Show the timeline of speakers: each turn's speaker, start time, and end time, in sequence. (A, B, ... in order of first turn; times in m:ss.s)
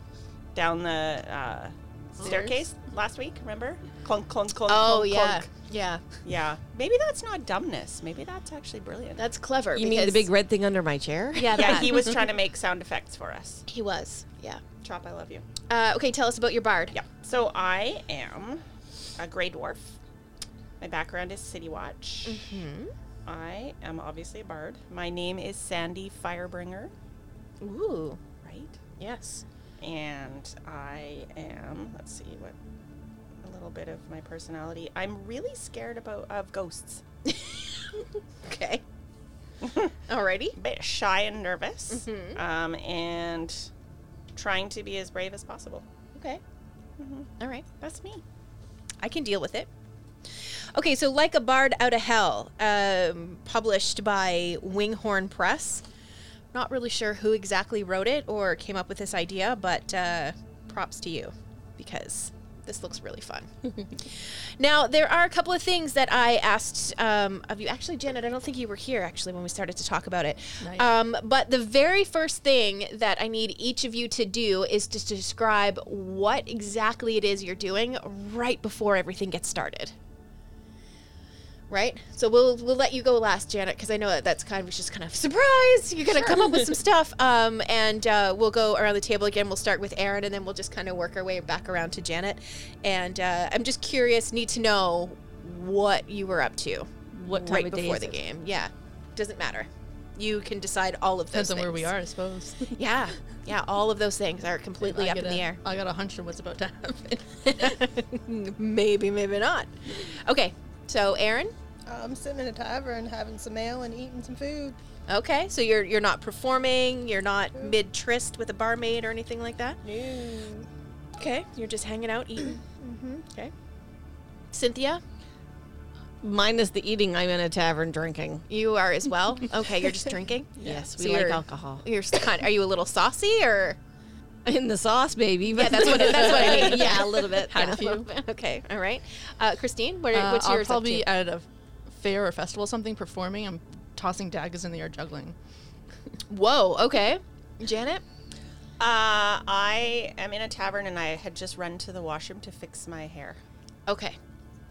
0:00.6-0:05.5 A
0:02.2-0:02.7 B
0:04.7-0:06.0 C
0:06.2-0:09.2 A
0:09.2-0:10.3 C
0:09.8-0:11.9 D
0:11.4-0:12.1 C
0:11.5-0:13.6 A
0:13.7-0:14.6 C
0:14.8-0:15.4 A
0:15.7-0:17.0 C
0:16.9-0:18.6 A
0:19.2-0:20.0 A
0:20.8-0:22.4 A
0:22.3-0:22.9 C
0:23.3-0:26.9 A
0:27.6-0:28.2 C
0:28.4-0:28.8 A
0:29.0-0:29.4 C
0:29.8-0:32.6 A
0:33.4-0:37.0 A
0:37.3-0:38.8 C
0:39.6-0:39.9 A
0:40.1-0:40.6 C
0:40.6-0:43.7 A
0:41.9-0:42.4 C
0:44.4-0:45.8 A
0:46.2-0:46.4 C
0:47.0-0:48.2 A
0:47.4-0:47.7 C
0:49.0-0:49.7 C
0:50.8-0:55.8 C
0:56.5-1:19.9 C
1:10.6-1:10.9 B
1:21.7-1:41.9 C
1:37.1-1:38.2 D
1:41.3-1:42.8 B
1:42.8-1:45.6 C
1:44.8-1:47.8 B
1:47.4-1:51.6 C
1:51.9-1:54.8 E
1:55.1-1:59.8 C
1:59.8-2:00.7 E
2:01.2-2:03.5 C
2:04.5-2:05.0 C
2:06.2-2:08.4 D
2:08.5-2:13.8 C
2:10.6-2:10.9 B
2:10.6-2:11.8 D
2:14.4-2:17.8 D
2:15.5-2:21.1 C
2:16.3-2:16.8 B
2:17.5-2:18.0 B
2:20.1-2:25.4 B
2:26.3-2:28.0 C
2:28.8-2:33.4 A
2:33.9-2:34.2 C